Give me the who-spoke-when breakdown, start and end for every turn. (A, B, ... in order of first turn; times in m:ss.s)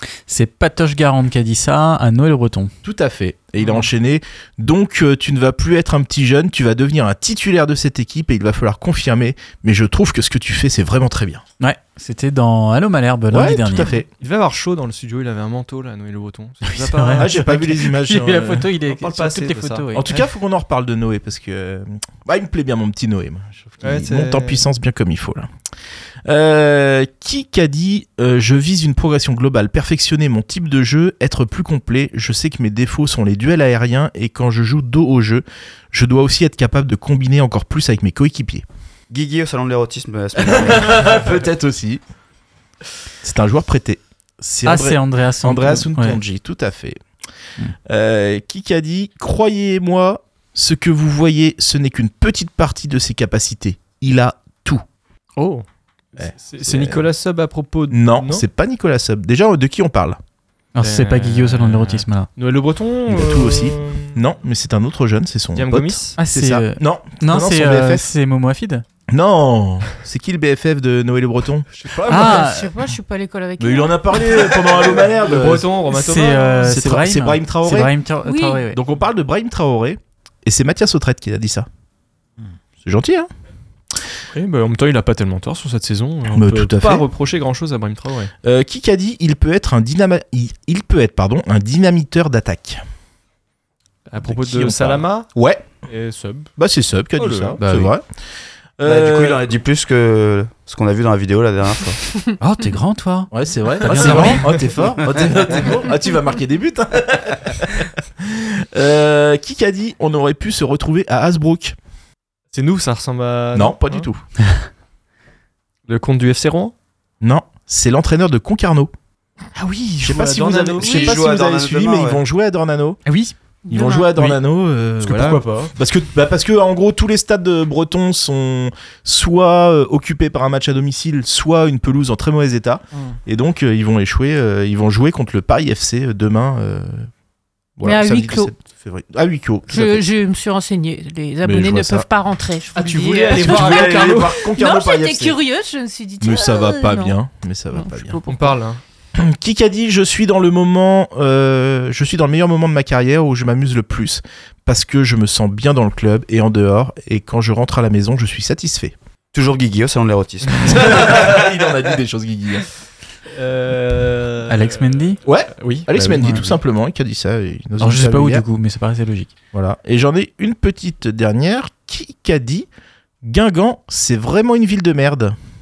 0:00.3-0:02.7 A
0:02.8-0:11.4 B
0:11.6-0:13.9 A
0:13.3-0:14.1 B
0:14.2-0:17.4 C
0:16.6-0:20.1 A
0:17.2-0:18.7 B
0:18.9-0:20.2 C
0:19.9-0:25.5 B
0:23.8-0:24.6 C
0:26.2-0:38.6 B
0:39.1-0:41.3 D
0:40.4-0:42.0 B
0:43.2-0:47.0 B
0:44.6-0:46.2 A
0:47.9-0:54.8 B
0:56.2-0:57.0 B
0:56.4-0:58.4 C
0:57.9-1:00.2 B
1:00.8-1:02.3 A
1:00.8-1:04.2 C
1:03.1-1:08.1 B
1:05.6-1:06.2 C
1:06.2-1:08.8 A
1:09.1-1:11.6 B
1:11.7-1:12.5 C
1:12.0-1:12.7 A
1:12.1-1:14.9 E
1:13.6-1:15.7 B
1:14.9-1:16.6 C
1:15.9-1:18.8 A
1:16.6-1:17.9 B
1:18.2-1:18.7 E
1:18.7-1:21.7 B
1:22.8-1:23.3 B
1:24.3-1:28.3 C
1:26.3-1:27.0 B
1:28.4-1:32.8 B
1:34.1-1:35.3 C
1:34.2-1:35.7 B
1:35.9-1:36.5 C
1:36.6-1:38.0 B
1:37.2-1:37.6 C
1:37.6-1:37.9 A
1:38.8-1:39.5 B
1:38.8-1:42.0 D
1:42.4-1:44.6 A
1:43.3-1:51.8 B
1:43.8-1:44.6 C
1:52.5-1:54.1 C
1:53.5-1:54.2 B
1:55.9-1:56.7 C
1:57.2-1:58.9 B
1:59.6-2:01.2 C
2:00.0-2:03.0 B
2:00.8-2:02.2 D
2:03.1-2:03.3 A
2:03.7-2:04.1 E
2:03.7-2:17.1 B
2:05.0-2:05.7 C
2:17.8-2:20.1 B
2:17.8-2:18.5 E
2:19.7-2:27.2 E
2:21.4-2:22.1 B
2:22.8-2:24.4 C
2:23.3-2:25.4 B
2:26.2-2:28.2 B
2:27.7-2:28.6 E
2:28.3-2:28.8 C
2:29.2-2:38.9 B
2:39.3-2:40.8 D
2:40.6-2:42.7 B
2:43.4-2:44.9 C
2:44.5-2:45.2 A
2:45.2-2:48.4 B
2:45.6-2:45.9 C
2:45.9-2:46.5 A
2:47.8-2:49.3 A
2:49.5-2:52.7 B
2:53.2-2:55.4 B